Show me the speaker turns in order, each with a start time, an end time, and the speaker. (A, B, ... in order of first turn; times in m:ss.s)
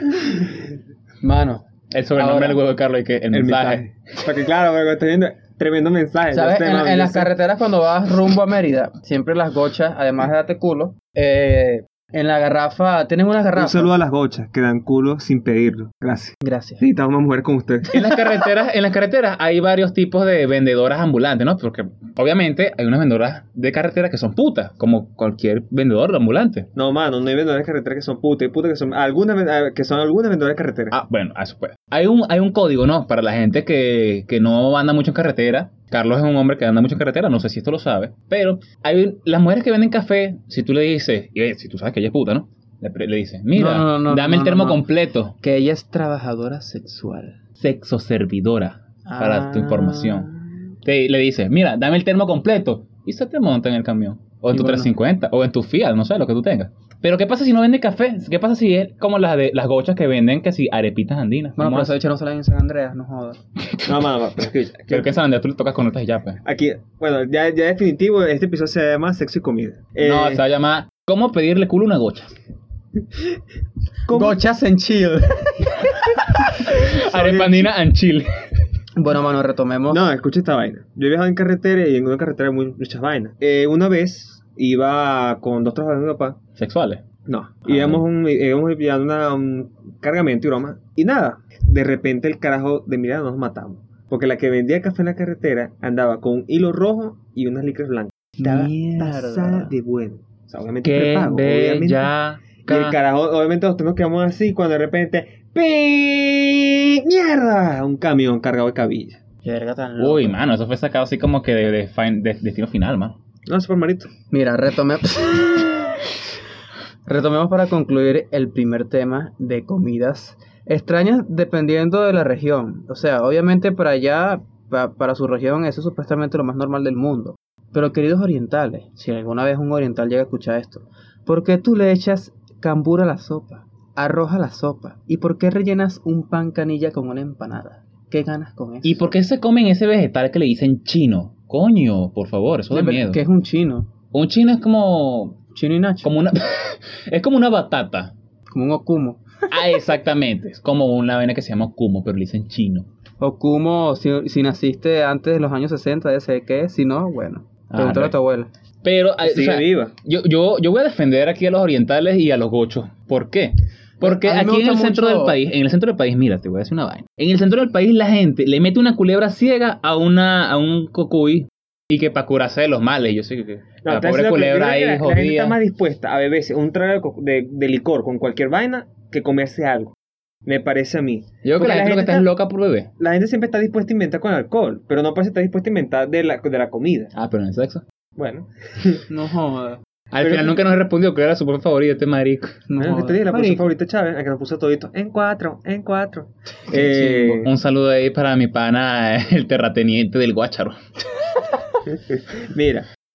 0:01.2-0:01.6 A
0:01.9-0:03.8 B
0:02.2-0:02.6 A
0:03.3-0:07.3 C
0:06.3-0:13.9 A
0:13.5-0:18.0 C
0:16.4-0:16.8 A
0:17.9-0:26.7 B
0:26.7-0:31.0 C
0:30.9-0:45.3 B
0:43.5-0:44.8 A
0:45.4-0:47.4 A
0:47.6-0:50.3 B
0:49.0-0:50.4 A
0:50.8-1:01.9 B
0:54.5-0:54.9 A
1:01.6-1:03.4 A
1:03.8-1:05.1 C
1:04.9-1:06.4 B
1:06.4-1:10.4 C
1:10.0-1:12.3 B
1:14.1-1:14.4 C
1:14.1-1:16.3 A
1:16.6-1:18.4 B
1:17.0-1:17.7 C
1:19.0-1:20.0 A
1:19.9-1:26.4 C
1:26.6-1:27.0 B
1:27.2-1:42.1 C
1:27.6-1:28.0 B
1:38.4-1:39.7 A
1:40.8-1:43.0 B
1:42.6-1:49.2 C
1:49.4-1:50.4 A
1:50.0-1:53.2 B
1:53.5-1:54.1 C
1:54.3-1:56.0 A
1:57.0-2:19.0 A
2:18.8-2:23.2 B
2:22.7-2:23.9 A
2:24.1-2:25.4 B
2:25.5-2:26.1 A
2:26.0-2:28.1 B
2:28.5-2:29.2 A
2:29.5-2:32.9 B
2:33.2-2:38.5 A
2:37.7-2:38.1 B
2:38.8-2:55.6 B
2:39.2-2:39.9 C
2:44.0-2:45.4 A
2:53.8-2:59.9 C
3:00.4-3:02.3 C
3:01.4-3:02.9 B
3:03.0-3:07.1 C
3:07.1-3:07.8 B
3:08.2-3:09.0 C
3:09.1-3:09.8 A
3:10.1-3:12.6 B
3:10.2-3:10.6 C
3:12.7-3:13.6 A
3:12.8-3:17.5 C
3:16.7-3:17.0 A
3:17.0-3:20.8 B
3:21.9-3:22.9 C